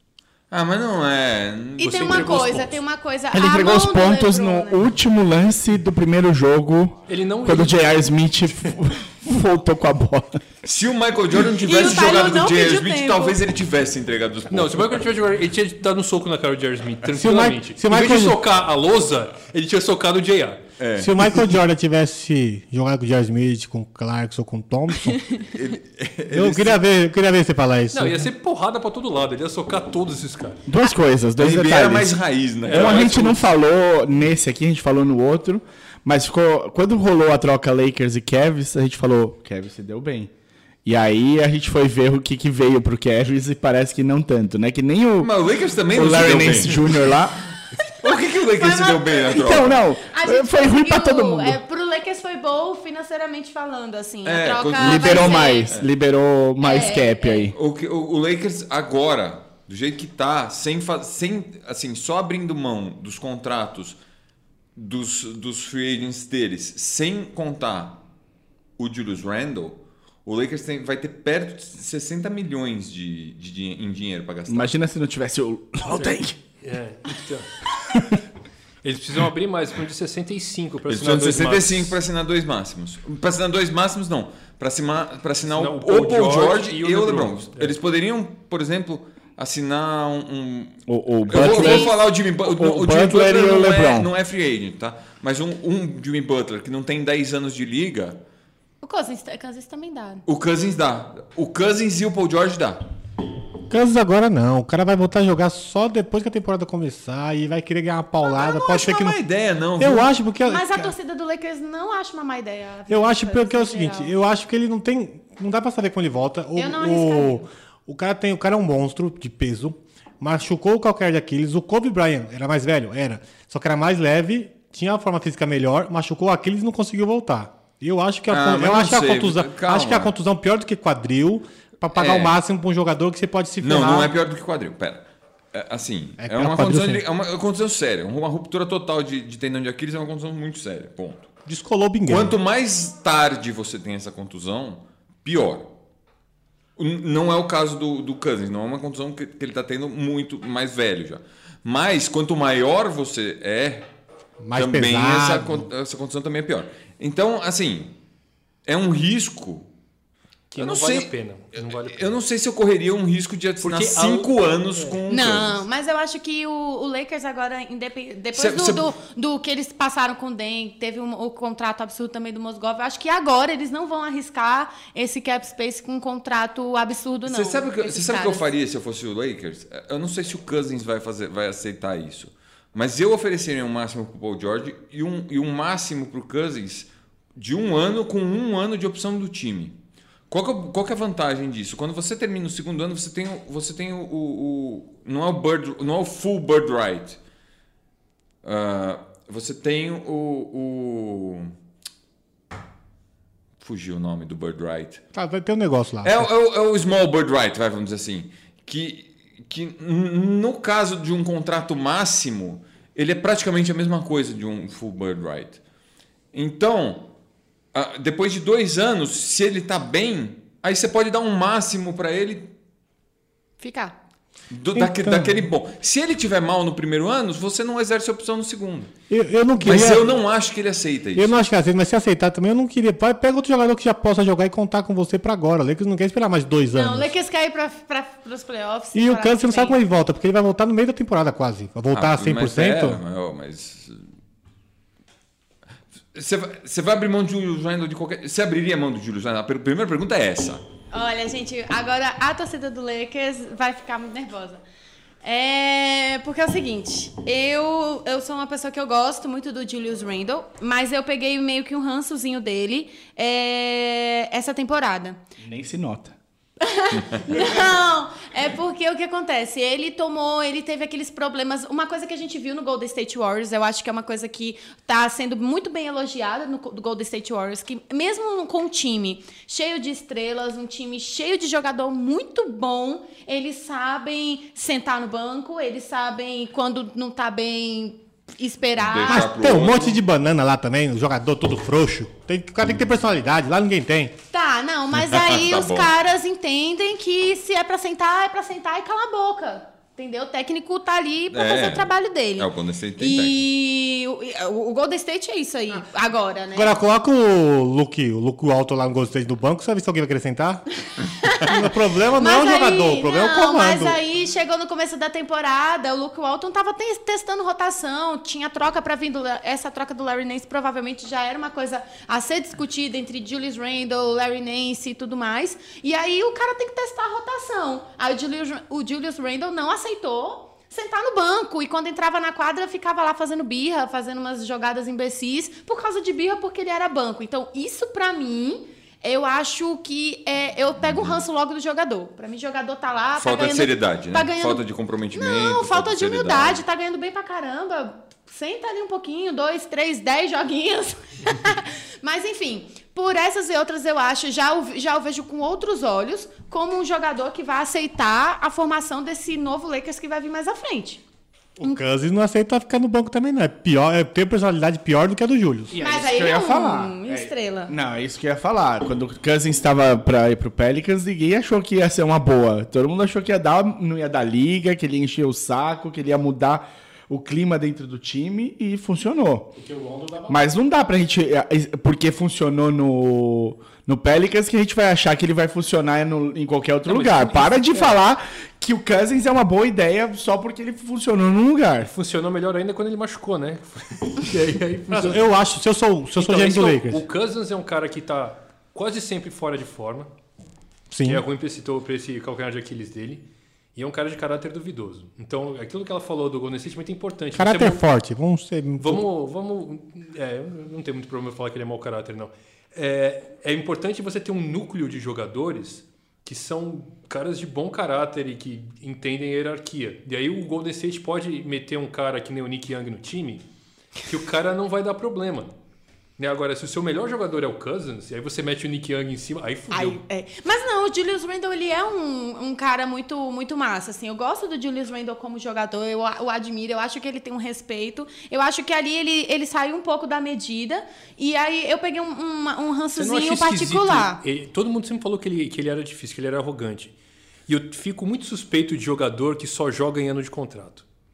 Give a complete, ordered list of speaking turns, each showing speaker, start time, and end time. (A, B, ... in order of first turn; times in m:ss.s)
0:00.5-0:02.7 A
0:01.8-0:04.8 B
0:01.9-0:02.8 C
0:03.3-0:10.4 D
0:07.1-0:08.0 C
0:10.6-0:15.0 A
0:11.6-0:13.4 B
0:14.5-0:20.6 C
0:17.0-0:18.4 E
0:20.8-0:21.4 A
0:21.0-0:25.2 E
0:25.5-0:26.8 A
0:26.3-0:28.3 E
0:27.9-0:30.6 C
0:30.7-0:40.3 D
0:31.4-0:33.5 A
0:32.6-0:33.1 C
0:40.8-0:45.4 D
0:45.2-0:47.1 A
0:45.9-0:47.4 D
0:48.0-0:49.9 A
0:48.1-0:55.8 B
0:49.3-0:51.6 D
0:54.2-0:55.9 A
0:54.8-0:57.6 D
0:56.6-0:57.5 B
0:57.5-1:04.0 A
1:04.8-1:08.0 A
1:08.8-1:14.7 A
1:14.5-1:16.4 D
1:15.9-1:17.6 C
1:18.8-1:22.0 C
1:20.9-1:38.2 A
1:25.6-1:27.8 C
1:30.9-1:34.1 D
1:31.4-1:32.0 B
1:38.8-1:40.2 B
1:40.3-1:42.8 A
1:43.7-1:49.2 E
1:48.3-1:50.1 A
1:49.8-1:50.9 E
1:50.4-1:54.1 B
1:52.9-2:14.1 E
1:56.6-1:57.4 B
2:08.3-2:10.1 A
2:12.0-2:12.4 A
2:13.6-2:21.3 A
2:16.2-2:17.0 E
2:21.5-2:22.4 E
2:22.1-2:25.7 A
2:26.8-2:33.9 A
2:34.4-2:35.7 E
2:34.5-2:37.9 A
2:38.6-2:39.7 A
2:40.5-2:42.2 C
2:40.6-2:45.6 A
2:43.6-2:45.0 C
2:45.1-2:58.4 B
2:48.3-2:48.9 A
2:57.3-3:09.8 A
3:10.3-3:17.2 A
3:18.4-3:21.5 A
3:23.6-3:25.0 A
3:25.1-3:26.3 E
3:26.0-3:35.6 A
3:36.3-3:37.1 A
3:37.7-3:42.5 A
3:43.6-3:44.0 B
3:44.5-3:48.9 A
3:44.8-3:45.5 E
3:49.1-3:50.1 E
3:49.6-3:51.4 A
3:51.2-3:57.1 E
3:56.8-3:59.8 B
3:58.9-4:03.0 E
4:01.9-4:04.0 A
4:06.1-4:10.6 A
4:10.9-4:14.6 B
4:15.2-4:25.2 B
4:25.4-4:26.2 D
4:26.6-4:49.3 B
4:48.8-4:50.0 A
4:49.1-4:54.2 E
4:54.3-5:06.7 B
4:55.0-4:55.9 A
5:01.3-5:03.4 A
5:06.5-5:10.6 E
5:11.3-5:11.6 B
5:11.4-5:14.0 E
5:12.2-6:01.0 B
5:40.8-5:41.2 A
5:43.2-5:46.6 A
6:01.6-6:05.8 E
6:05.7-6:19.6 D
6:05.8-6:07.7 B
6:19.7-6:20.3 E
6:20.3-6:31.9 D
6:26.9-6:28.0 C
6:31.9-6:35.4 C
6:34.9-6:37.0 E
6:36.2-6:40.1 C
6:40.9-6:41.2 E
6:41.0-6:47.9 C
6:47.4-6:49.1 E
6:48.8-7:03.4 C
7:04.0-7:05.5 C
7:06.2-7:10.0 C
7:09.7-7:24.2 B
7:23.0-7:26.9 C
7:27.5-7:30.8 C